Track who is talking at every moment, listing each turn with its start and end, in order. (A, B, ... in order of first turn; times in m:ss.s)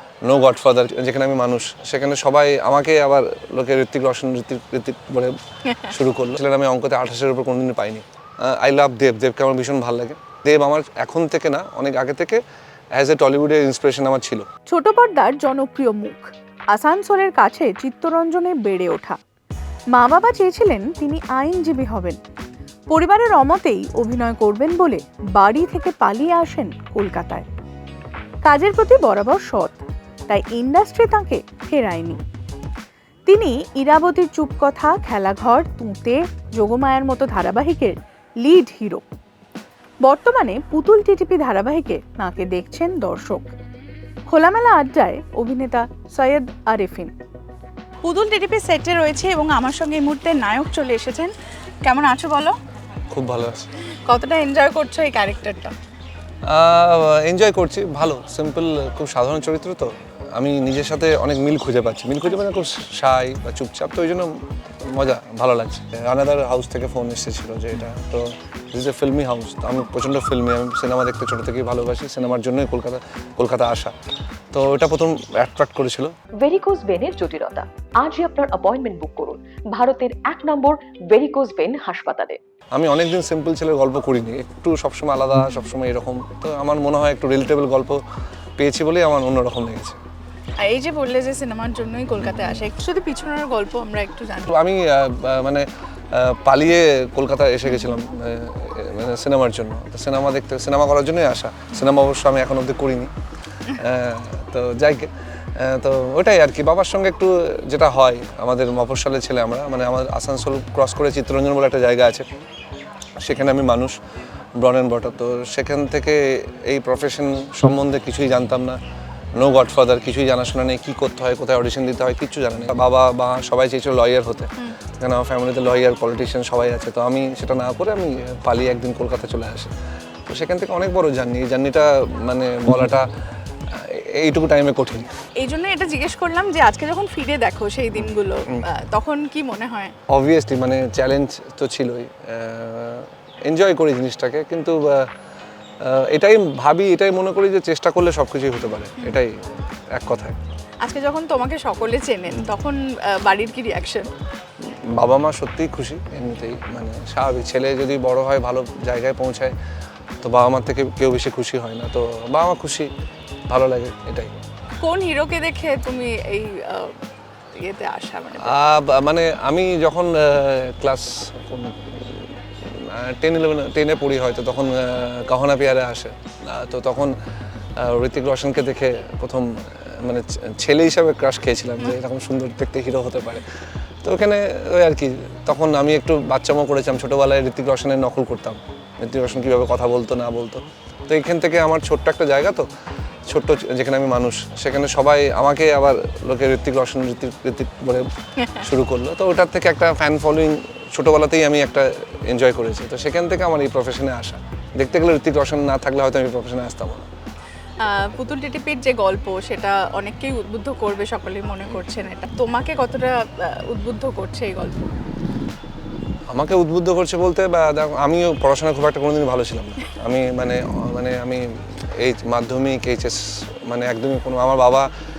0:00.2-0:12.4 A
0:13.0-0:14.5 A
0:14.7-0:19.2 B
0:19.9-0:22.2 B
0:22.9-0:27.5 B
0:28.4-0:32.2 B
0:33.3-0:39.1 B
0:40.1-0:43.5 B
0:44.3-0:47.1 B
0:48.0-0:52.6 C
0:53.1-0:53.7 A
0:54.1-0:55.8 C
0:56.4-1:13.9 A
1:14.5-1:16.1 A
1:16.4-1:22.4 D
1:22.7-1:28.0 A
1:28.6-1:30.0 A
1:30.6-1:34.5 C
1:34.5-1:43.1 A
1:43.7-1:52.3 A
1:53.2-1:54.0 A
1:54.6-1:58.8 A
1:59.4-2:09.7 A
2:10.3-2:13.1 A
2:13.7-2:15.1 A
2:15.4-2:19.9 C
2:20.1-2:25.1 A
2:25.8-2:29.4 A
2:29.9-2:30.4 A
2:30.8-2:34.1 C
2:34.6-2:39.6 A
2:40.2-2:42.9 A
2:43.5-2:44.3 A
2:44.8-2:47.0 C
2:47.6-2:48.6 C
2:48.4-2:57.1 A
2:57.8-3:03.4 A
3:04.0-3:12.7 A
3:13.3-3:27.1 A
3:27.8-3:34.9 C
3:36.3-3:44.9 A